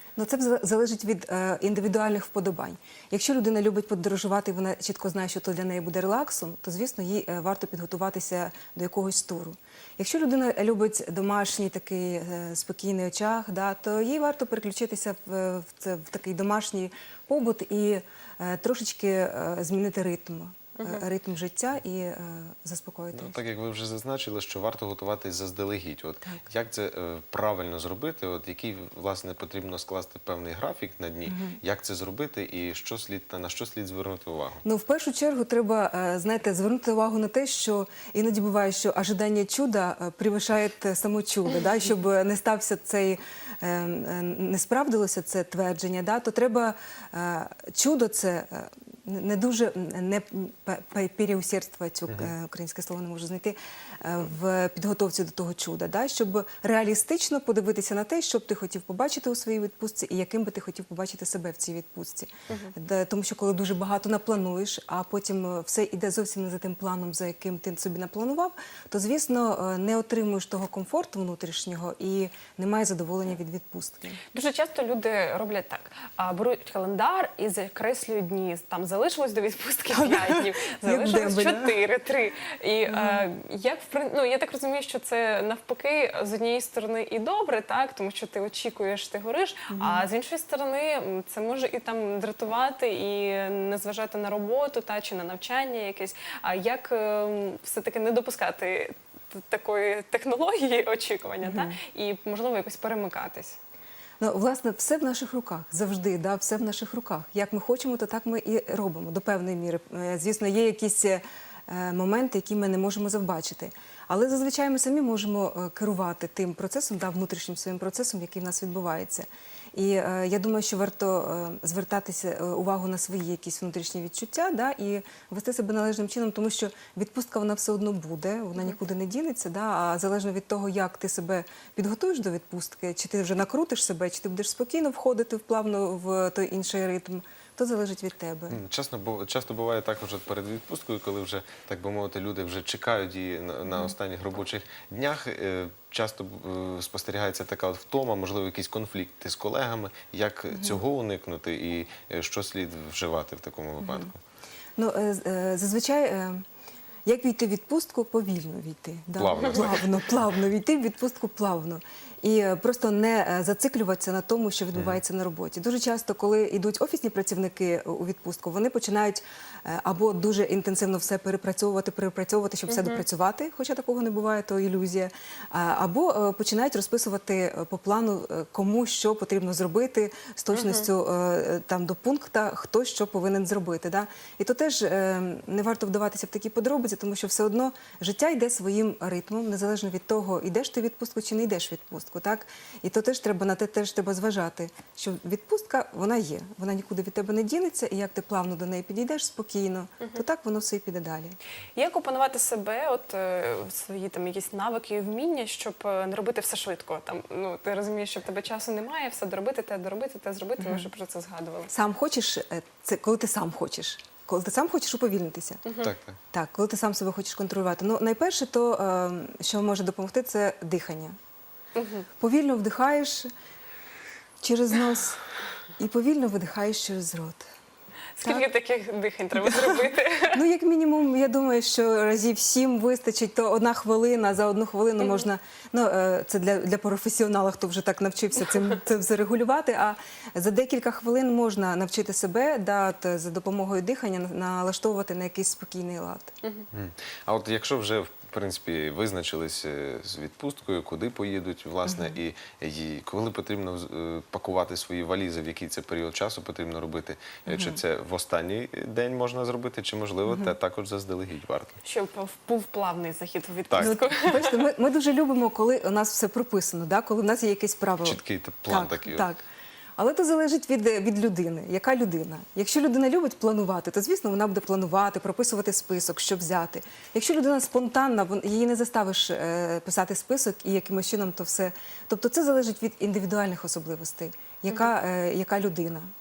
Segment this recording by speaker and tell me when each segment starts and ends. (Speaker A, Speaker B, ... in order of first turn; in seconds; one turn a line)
Speaker A: 0.2-23.4
Speaker B: 23.1-34.6
Speaker A: 31.2-31.6
Speaker A: 34.6-74.2
Speaker C: 74.3-103.6
Speaker A: 79.9-81.8
Speaker A: 82.9-83.2
Speaker A: 89.7-90.1
Speaker A: 101.4-101.8
Speaker A: 104.2-138.6
Speaker B: 138.5-154.2
Speaker A: 143.7-143.9
Speaker A: 150.5-150.8
Speaker A: 153.8-154.1
Speaker A: 154.8-156.4
Speaker A: 157.1-201.4
Speaker B: 159.2-159.8
Speaker B: 164.7-165.0
Speaker C: 172.7-173.0
Speaker C: 180.5-180.9
Speaker C: 201.8-211.7
Speaker A: 210.6-210.9
Speaker A: 211.7-215.6
Speaker C: 215.7-215.9
Speaker B: 215.8-216.2
Speaker A: 216.3-221.2
Speaker C: 221.7-222.1
Speaker A: 222.2-223.3
Speaker A: 224.4-225.2
Speaker A: 225.8-227.4
Speaker C: 228.2-230.4
Speaker A: 229.5-229.7
Speaker A: 230.3-246.3
Speaker B: 246.7-261.8
Speaker A: 251.8-252.2
Speaker A: 257.5-257.8
Speaker A: 260.2-260.5
Speaker C: 261.8-264.7
Speaker B: 263.7-264.0
Speaker A: 263.8-269.4
Speaker B: 268.0-269.2
Speaker A: 270.0-286.1